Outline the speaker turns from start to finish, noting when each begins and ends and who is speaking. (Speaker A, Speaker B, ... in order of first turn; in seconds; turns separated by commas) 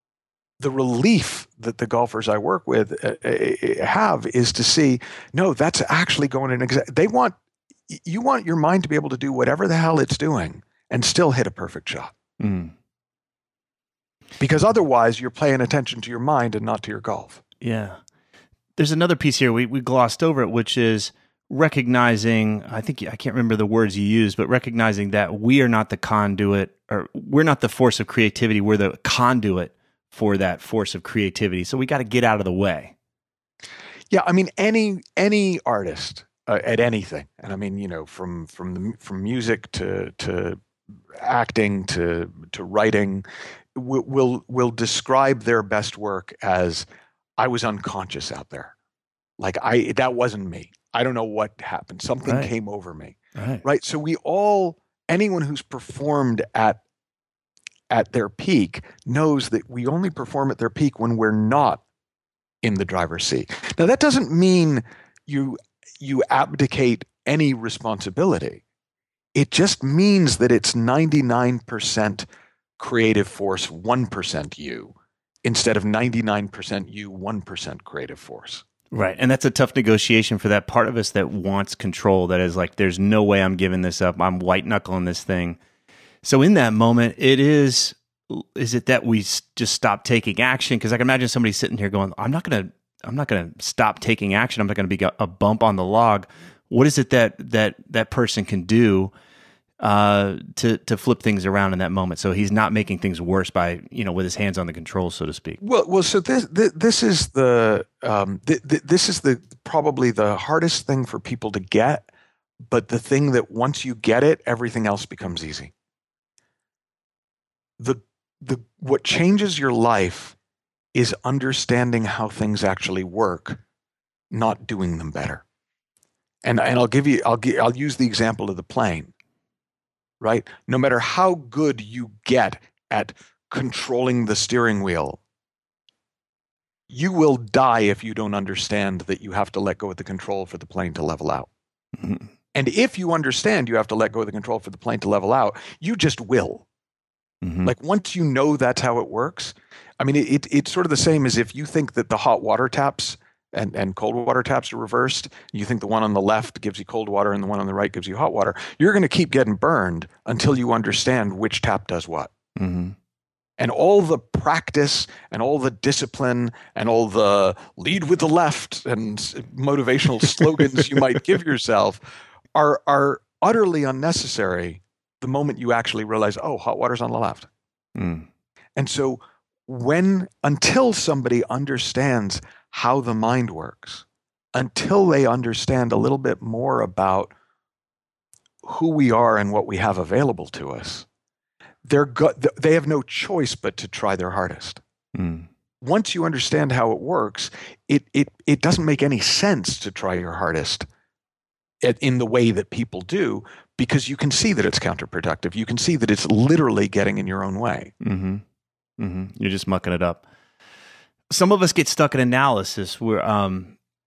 Speaker A: 0.6-7.3, Speaker A: 7.9-12.1, Speaker B: 12.4-12.7, Speaker A: 14.4-17.4, Speaker B: 17.6-18.0, Speaker B: 18.8-32.9, Speaker A: 34.1-40.6, Speaker A: 41.1-46.9, Speaker A: 47.4-48.7, Speaker A: 49.4-56.8, Speaker B: 52.2-52.5, Speaker B: 53.3-53.6, Speaker A: 57.9-61.8, Speaker A: 62.6-68.6, Speaker A: 69.3-72.3, Speaker A: 72.8-78.6, Speaker B: 78.9-85.6, Speaker B: 86.2-99.1, Speaker B: 99.8-105.6, Speaker A: 105.6-112.1, Speaker A: 112.7-115.7, Speaker A: 117.8-120.3, Speaker A: 120.9-123.6, Speaker A: 124.3-125.4, Speaker A: 126.4-129.1, Speaker A: 130.2-135.2, Speaker A: 136.9-141.5, Speaker B: 142.0-142.3, Speaker A: 142.5-146.7, Speaker B: 147.4-147.7, Speaker A: 147.6-162.3, Speaker B: 162.6-162.9, Speaker A: 163.6-172.0, Speaker A: 172.5-177.5, Speaker B: 177.9-178.3, Speaker A: 178.8-184.0, Speaker A: 184.5-187.3, Speaker A: 188.6-191.1, Speaker A: 191.8-194.8, Speaker B: 195.1-195.5, Speaker A: 195.8-200.9, Speaker A: 201.8-207.9, Speaker B: 208.0-208.4, Speaker B: 209.0-210.2, Speaker B: 211.3-213.7